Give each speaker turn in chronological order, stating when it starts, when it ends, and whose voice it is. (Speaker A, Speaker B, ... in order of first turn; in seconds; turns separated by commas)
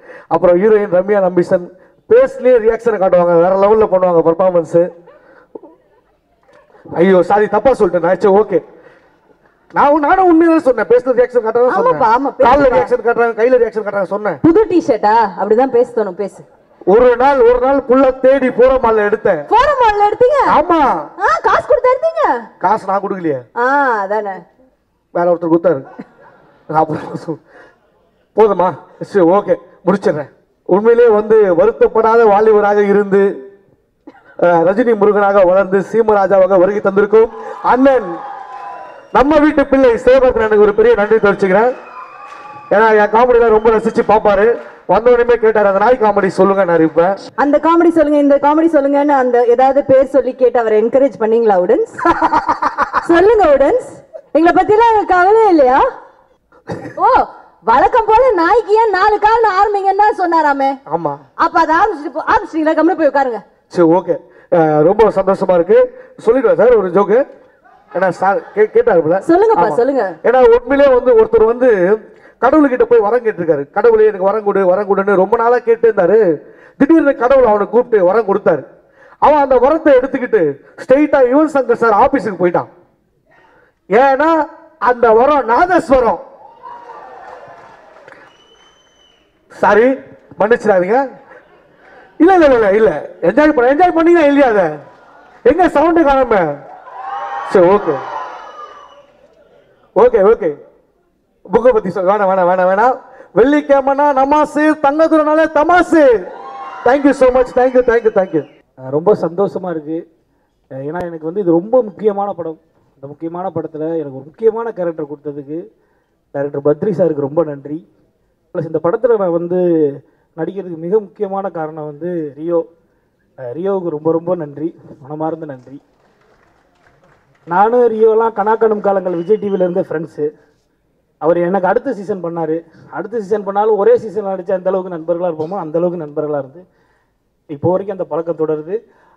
Speaker A: 0.3-4.8, Speaker A: 7.0-8.6, Speaker A: 9.8-14.4, Speaker B: 11.7-12.9, Speaker B: 14.4-16.4, Speaker A: 16.9-19.4, Speaker B: 19.5-20.6, Speaker A: 20.5-21.1, Speaker B: 21.2-22.3, Speaker A: 22.6-23.4, Speaker B: 23.6-24.4, Speaker A: 25.1-25.8, Speaker A: 26.7-27.4, Speaker A: 28.3-33.3, Speaker A: 34.4-38.1, Speaker A: 39.1-41.7, Speaker A: 42.7-47.2, Speaker B: 47.4-52.0, Speaker B: 53.0-55.8, Speaker B: 57.0-60.8, Speaker A: 60.9-61.2, Speaker B: 61.4-63.4, Speaker A: 63.7-67.2, Speaker A: 67.9-76.2, Speaker B: 69.2-70.1, Speaker A: 76.8-78.6, Speaker A: 79.2-82.7, Speaker A: 83.9-84.3, Speaker A: 84.9-86.2, Speaker A: 89.6-91.0, Speaker A: 92.2-94.7, Speaker A: 95.5-96.5, Speaker A: 97.5-98.0, Speaker A: 100.0-100.6, Speaker A: 101.5-106.1, Speaker A: 106.8-108.4, Speaker C: 108.9-110.0, Speaker C: 110.8-115.6, Speaker C: 116.3-117.8, Speaker C: 118.5-119.6, Speaker C: 120.4-122.6, Speaker C: 123.4-125.8, Speaker C: 127.5-130.3, Speaker C: 131.2-136.6, Speaker C: 137.5-138.8